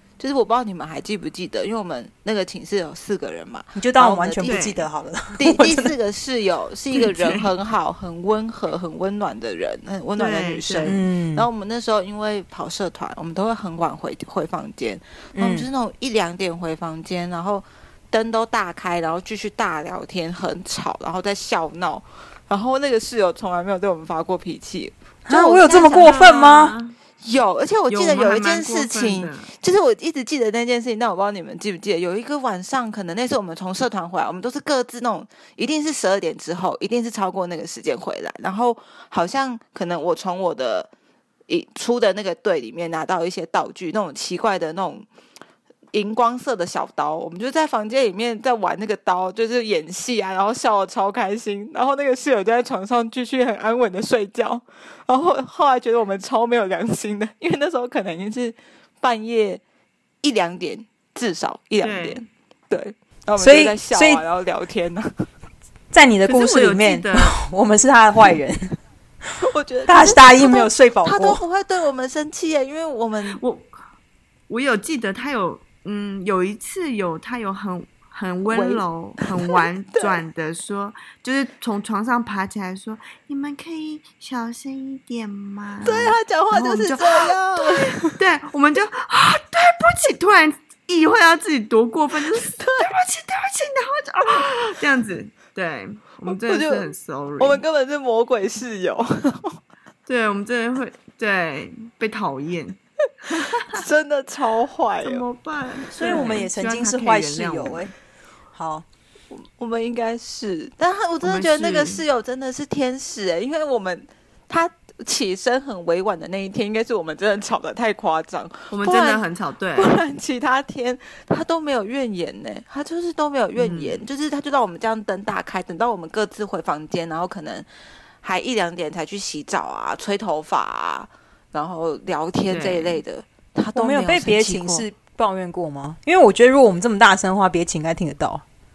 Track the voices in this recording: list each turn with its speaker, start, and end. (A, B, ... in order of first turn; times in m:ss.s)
0:00.2-0:04.6 A
0:03.8-0:05.9 B
0:04.4-0:04.9 C
0:05.4-0:26.2 A
0:07.0-0:07.5 C
0:10.2-0:11.0 C
0:10.8-0:11.5 B
0:15.4-0:15.7 B
0:25.3-0:26.8 B
0:25.9-0:27.0 C
0:27.2-0:40.9 A
0:27.9-0:29.5 C
0:41.5-0:45.1 A
0:45.9-0:59.6 A
1:00.2-1:05.3 A
1:01.8-1:02.2 C
1:03.4-1:04.2 B
1:05.9-1:08.8 B
1:06.3-1:07.4 C
1:09.4-1:13.4 A
1:09.9-1:11.4 B
1:13.4-1:13.7 C
1:14.5-1:37.6 C
1:18.5-1:20.2 A
1:25.8-1:28.2 A
1:32.3-1:32.9 A
1:36.3-1:39.6 A
1:40.1-1:43.8 C
1:43.7-1:45.2 A
1:45.0-1:47.9 C
1:46.0-1:47.9 B
1:46.0-1:46.4 A
1:48.5-1:48.8 B
1:49.3-1:59.2 A
1:51.2-1:52.0 C
1:58.7-2:00.0 C
1:59.8-2:07.7 A
2:03.6-2:04.0 C
2:08.2-2:14.8 A
2:12.5-2:13.0 C
2:13.8-2:18.4 B